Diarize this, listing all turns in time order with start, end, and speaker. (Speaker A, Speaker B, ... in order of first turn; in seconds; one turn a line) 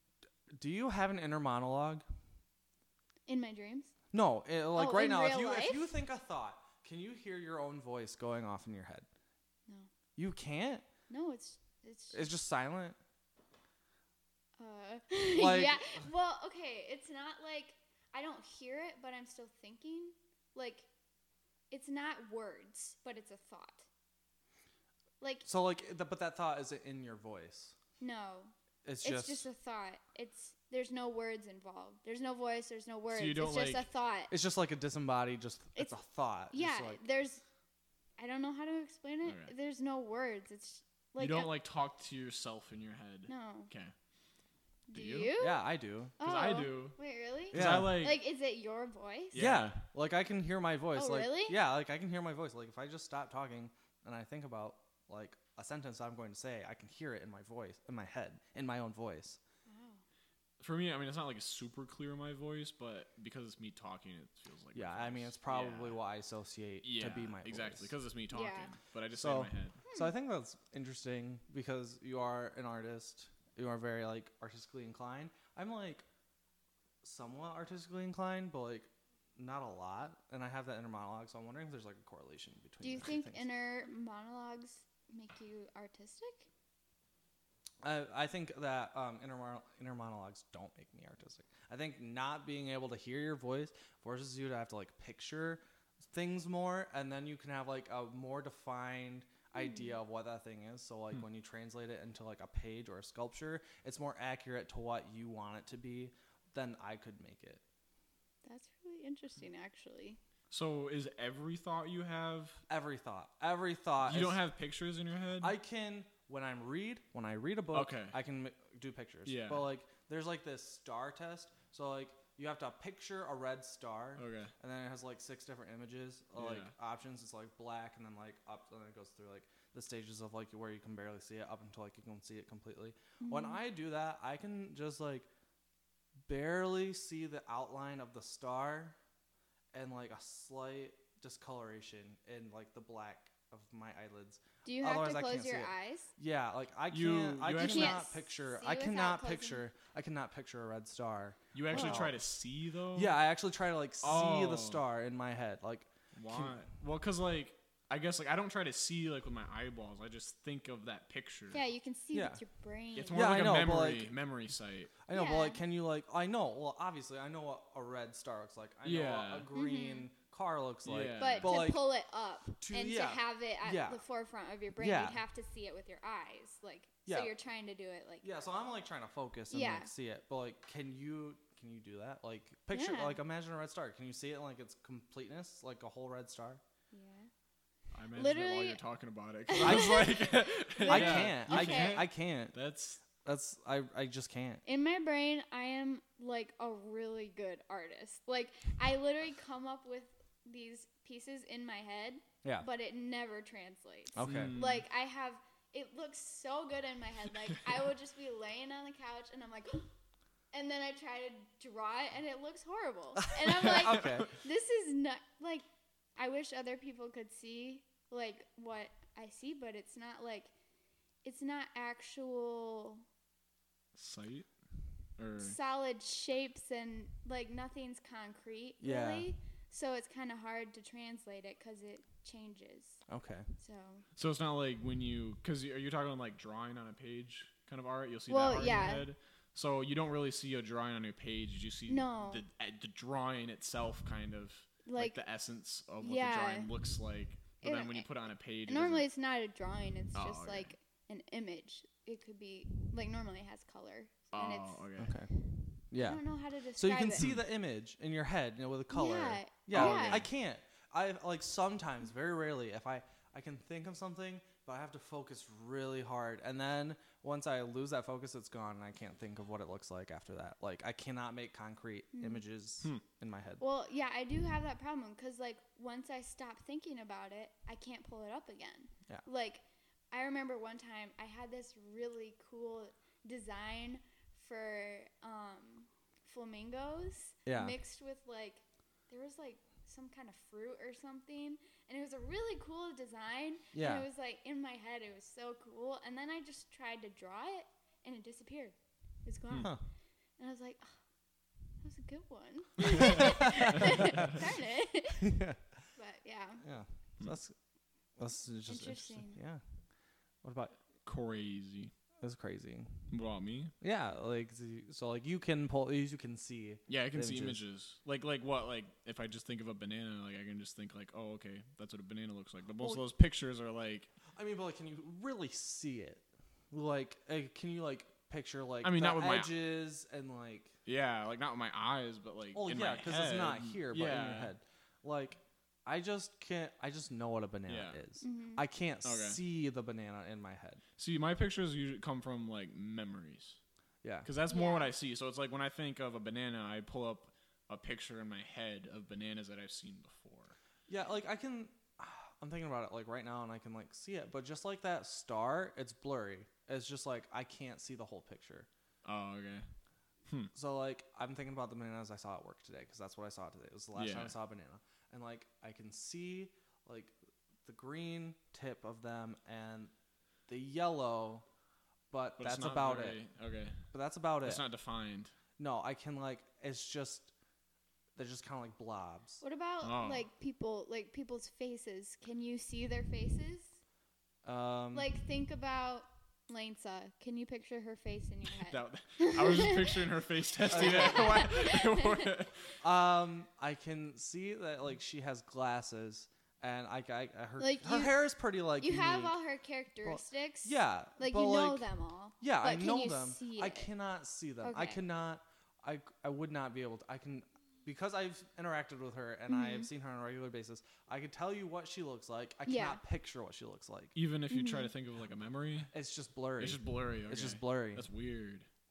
Speaker A: 0.5-2.0
Speaker B: 3.3-3.9
Speaker A: 4.1-9.1
Speaker B: 4.7-5.9
Speaker A: 10.2-10.8
Speaker B: 11.1-12.3
Speaker A: 12.1-13.0
Speaker B: 14.6-20.9
Speaker A: 15.3-16.1
Speaker B: 21.7-23.9
Speaker B: 25.2-25.4
Speaker A: 25.4-27.7
Speaker B: 28.0-34.3
Speaker A: 28.8-29.4
Speaker C: 33.1-33.8
Speaker A: 34.3-37.0
Speaker B: 36.5-37.4
Speaker B: 38.2-41.5
Speaker C: 39.2-39.5
Speaker C: 41.2-43.9
Speaker B: 43.3-43.7
Speaker B: 44.9-45.6
Speaker C: 44.9-45.3
Speaker A: 45.4-46.1
Speaker B: 46.2-49.4
Speaker C: 46.2-47.0
Speaker A: 47.5-48.0
Speaker C: 47.5-48.2
Speaker C: 49.3-49.8
Speaker A: 49.3-59.4
Speaker B: 51.0-51.6
Speaker B: 59.7-60.0
Speaker C: 60.6-66.0
Speaker A: 64.7-67.9
Speaker C: 66.8-69.8
Speaker B: 68.3-68.7
Speaker A: 69.1-76.0
Speaker B: 69.9-70.1
Speaker A: 77.0-83.4
Speaker B: 82.8-86.5
Speaker A: 87.8-107.6
Speaker B: 99.5-100.0
Speaker B: 108.4-110.2
Speaker C: 110.5-112.6
Speaker A: 112.7-114.4
Speaker C: 114.0-115.5
Speaker A: 115.4-135.3
Speaker C: 117.7-118.2
Speaker C: 119.2-119.7
Speaker C: 124.2-124.5
Speaker C: 126.4-126.7
Speaker B: 133.2-133.6
Speaker A: 136.3-139.0
Speaker A: 139.7-152.2
Speaker B: 144.6-146.1
Speaker C: 146.9-148.0
Speaker B: 147.5-149.6
Speaker C: 151.5-153.2
Speaker B: 151.7-152.1
Speaker A: 152.9-156.6
Speaker C: 154.0-154.8
Speaker C: 156.1-161.6
Speaker B: 161.5-163.2
Speaker A: 162.1-162.4
Speaker C: 162.9-164.9
Speaker A: 163.1-164.1
Speaker A: 165.1-171.9
Speaker B: 165.1-165.6
Speaker C: 168.8-169.5
Speaker B: 169.5-170.1
Speaker C: 170.8-171.6
Speaker B: 171.2-178.3
Speaker A: 172.6-174.0
Speaker A: 174.8-175.2
Speaker A: 177.1-177.3
Speaker A: 178.2-186.6
Speaker B: 179.5-179.9
Speaker B: 182.7-183.2
Speaker B: 186.9-187.3
Speaker C: 187.9-193.0
Speaker B: 188.1-188.8
Speaker B: 189.5-192.1
Speaker A: 189.6-190.1
Speaker A: 190.8-192.5
Speaker A: 193.2-194.6
Speaker B: 194.6-209.9
Speaker A: 204.1-204.6
Speaker C: 204.2-204.8
Speaker B: 210.5-215.6
Speaker A: 213.3-214.3
Speaker B: 216.2-220.5
Speaker B: 221.2-223.0
Speaker C: 223.9-224.5
Speaker C: 225.2-225.6
Speaker B: 225.4-233.0
Speaker A: 228.8-229.3
Speaker A: 233.1-233.5
Speaker B: 233.6-234.0
Speaker C: 234.2-249.1
Speaker B: 238.3-239.1
Speaker B: 241.9-242.4
Speaker B: 244.8-245.2
Speaker B: 246.0-246.7
Speaker B: 247.6-248.1
Speaker B: 248.7-254.8
Speaker C: 250.1-250.7
Speaker C: 254.3-255.1
Speaker A: 255.0-256.2
Speaker B: 255.9-257.2
Speaker A: 256.8-273.6
Speaker B: 258.9-260.3
Speaker C: 259.7-260.3
Speaker B: 272.1-272.4
Speaker B: 273.6-299.7
Speaker A: 287.4-287.8
Speaker A: 293.7-294.0
Speaker B: 300.4-300.9
Speaker B: 301.8-305.3
Speaker C: 302.8-304.4
Speaker A: 303.5-304.4
Speaker A: 305.2-305.6
Speaker B: 305.9-306.6
Speaker A: 306.6-307.5
Speaker A: 308.2-309.6
Speaker B: 308.7-309.4
Speaker A: 310.4-310.8
Speaker C: 311.0-311.9
Speaker A: 312.2-313.1
Speaker C: 313.1-313.7
Speaker A: 313.8-317.6
Speaker C: 316.9-324.1
Speaker A: 324.3-330.7
Speaker C: 328.8-329.5
Speaker C: 330.8-334.5
Speaker A: 332.5-340.8
Speaker C: 337.7-338.0
Speaker B: 338.2-338.6
Speaker C: 339.0-339.4
Speaker C: 341.0-343.6
Speaker A: 344.0-344.3
Speaker C: 344.2-350.5
Speaker B: 344.5-344.9
Speaker A: 350.9-358.7
Speaker C: 359.0-359.7
Speaker A: 360.5-369.9
Speaker C: 363.9-364.3
Speaker A: 370.5-371.4
Speaker A: 372.1-373.2
Speaker C: 372.4-373.8
Speaker A: 373.9-374.6
Speaker C: 374.4-375.3
Speaker A: 375.6-377.3
Speaker A: 378.1-379.4
Speaker B: 379.4-383.7
Speaker C: 379.8-380.2
Speaker A: 384.4-385.1
Speaker B: 384.9-390.0
Speaker C: 388.7-392.6
Speaker A: 390.7-391.4
Speaker B: 390.7-392.3
Speaker A: 392.8-399.4
Speaker B: 397.6-398.1
Speaker B: 398.8-403.9
Speaker A: 400.0-401.9
Speaker A: 402.4-414.1
Speaker B: 404.6-405.0
Speaker B: 409.5-409.9
Speaker B: 412.6-413.0
Speaker C: 414.1-415.9
Speaker B: 414.5-414.9
Speaker A: 415.9-418.1
Speaker C: 416.6-418.7